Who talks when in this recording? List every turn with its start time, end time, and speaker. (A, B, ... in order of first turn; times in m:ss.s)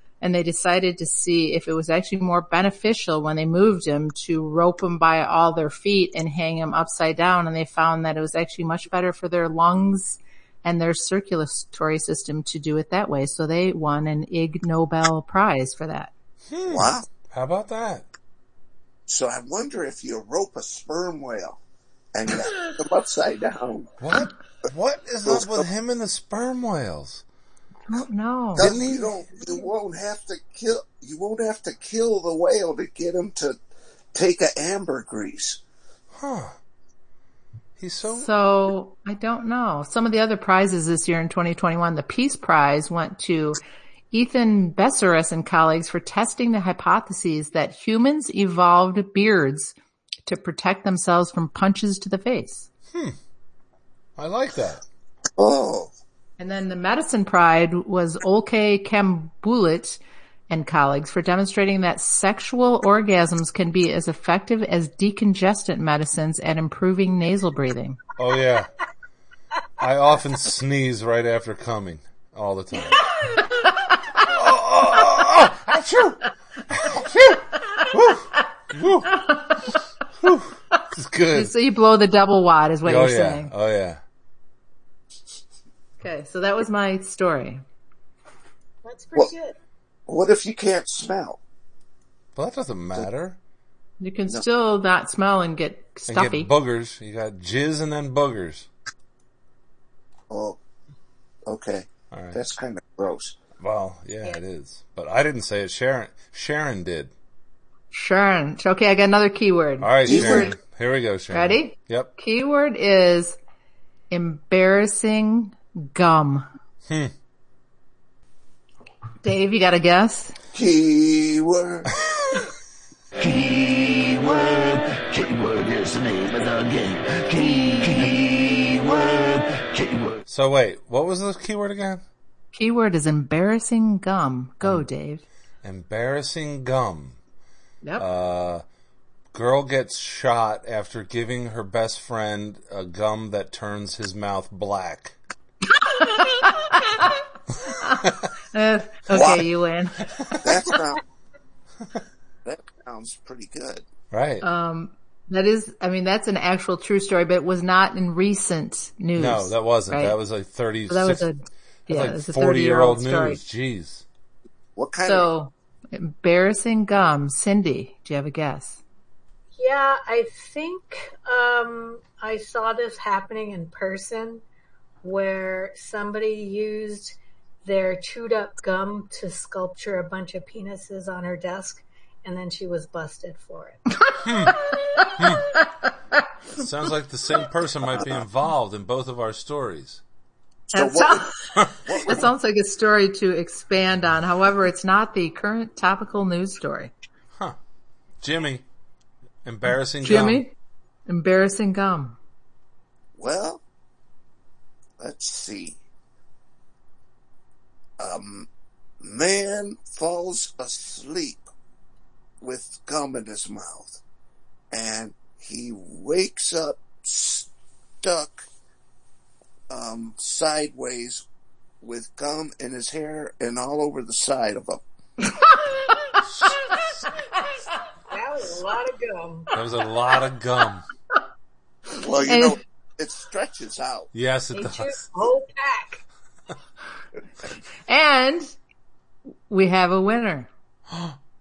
0:00.2-0:16.1 A
0:16.5-0:18.1 B
0:16.7-0:17.1 C
0:19.1-0:21.6 C
0:22.1-0:23.9 C
0:24.0-0:27.2 B
0:25.2-0:25.7 C
0:27.9-0:28.7 A
0:28.6-0:33.6 C
0:28.6-0:29.1 B
0:34.1-0:35.6 C
0:36.1-0:36.6 B
0:37.8-0:38.3 B
0:38.0-0:43.6 A
0:44.1-0:49.7 A
0:50.3-0:52.7 A
0:54.2-0:54.8 B
0:55.4-0:55.9 C
0:56.4-1:08.0 A
1:08.2-1:08.7 B
1:09.8-1:13.0 B
1:14.2-1:19.3 B
1:19.2-1:19.7 A
1:20.2-1:21.5 B
1:21.3-1:23.5 A
1:22.8-1:24.0 B
1:26.0-1:27.6 A
1:28.8-1:29.6 D
1:30.1-1:31.4 C
1:32.4-1:33.4 B
1:34.0-1:36.5 A
1:36.1-1:38.7 B
1:40.3-1:40.6 C
1:41.5-1:43.4 C
1:42.1-1:42.4 B
1:43.6-1:47.1 B
1:47.9-1:50.5 A
1:49.8-1:52.1 B
1:50.0-1:50.6 C
1:51.3-1:53.4 A
1:54.1-1:56.5 A
1:59.2-2:00.4 A
2:00.5-2:01.9 C
2:03.2-2:10.2 E
2:10.3-2:12.0 B
2:12.5-2:15.2 A
2:15.6-2:17.2 B
2:18.0-2:18.6 B
2:19.3-2:25.2 B
2:25.9-2:30.1 A
2:29.1-2:29.5 C
2:30.1-2:30.4 B
2:30.4-2:31.0 C
2:32.4-2:33.9 C
2:34.1-2:34.4 B
2:34.4-2:40.2 A
2:39.2-2:41.3 B
2:40.9-2:43.4 A
2:41.9-2:44.0 B
2:44.8-2:45.3 C
2:45.0-2:48.8 A
2:49.6-2:54.4 D
2:55.0-3:03.8 D
3:04.1-3:05.2 A
3:04.2-3:04.6 B
3:05.2-3:05.5 B
3:06.5-3:10.0 B
3:07.9-3:08.2 C
3:10.7-3:12.3 C
3:10.7-3:11.5 A
3:12.1-3:16.9 A
3:18.2-3:18.6 B
3:19.4-3:20.4 B
3:20.0-3:20.5 A
3:21.1-3:22.2 A
3:23.2-3:23.6 C
3:25.0-3:25.8 C
3:28.0-3:28.5 C
3:29.0-3:31.5 C
3:32.4-3:34.0 C
3:34.7-3:37.5 C
3:38.0-3:38.5 C
3:39.7-3:41.3 C
3:41.8-3:44.8 C
3:46.2-3:47.0 B
3:48.1-3:49.5 D
3:49.5-3:50.9 B
3:51.9-3:54.1 C
3:52.2-3:52.6 A
3:54.1-3:54.9 B
3:54.5-3:56.0 D
3:57.9-3:58.6 A
3:59.5-4:00.5 A
4:00.9-4:01.2 B